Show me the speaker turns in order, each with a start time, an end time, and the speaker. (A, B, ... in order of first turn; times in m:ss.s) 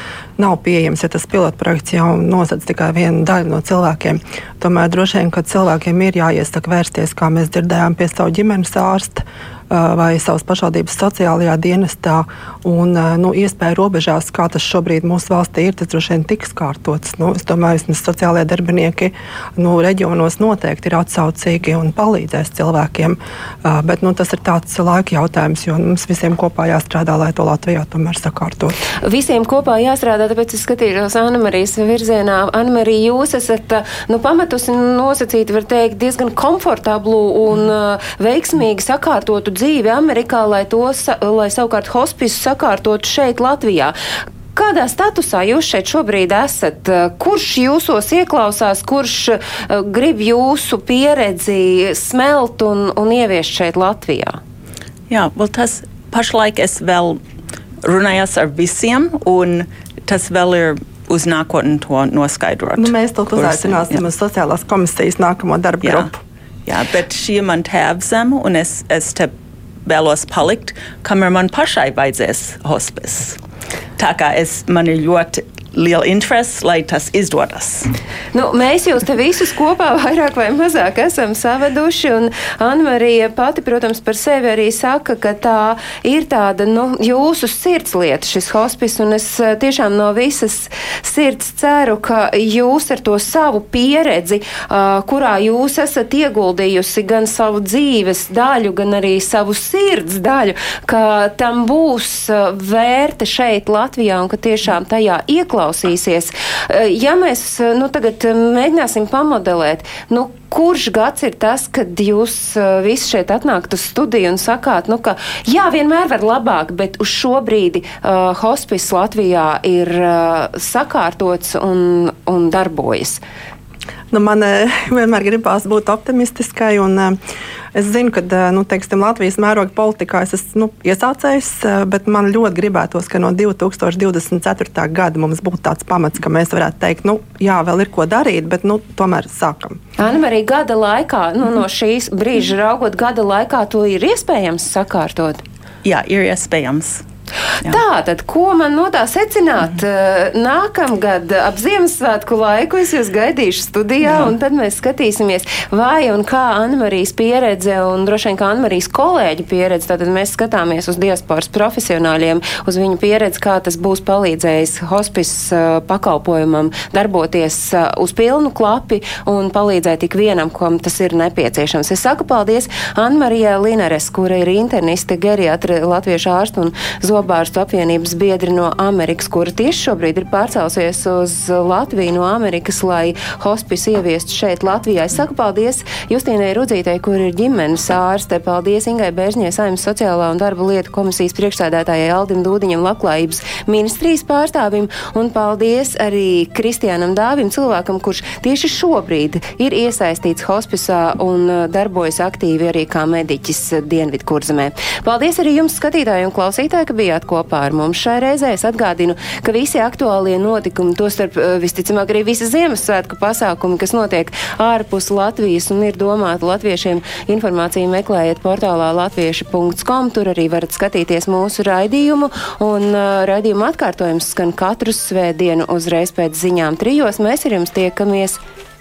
0:00.4-0:28.7 A
0:29.0-0:44.0 B
0:44.5-0:54.4 B
0:55.1-0:57.2 C
0:57.8-1:04.0 C
1:02.8-1:06.2 A
1:05.8-1:06.1 C
1:06.7-1:09.3 C
1:09.8-1:13.4 C
1:14.0-1:17.9 C
1:18.3-2:03.2 B
2:04.1-2:07.2 A
2:07.7-2:19.8 A
2:20.0-2:25.4 B
2:25.8-2:27.0 C
2:27.7-3:48.4 B
2:34.0-2:34.3 C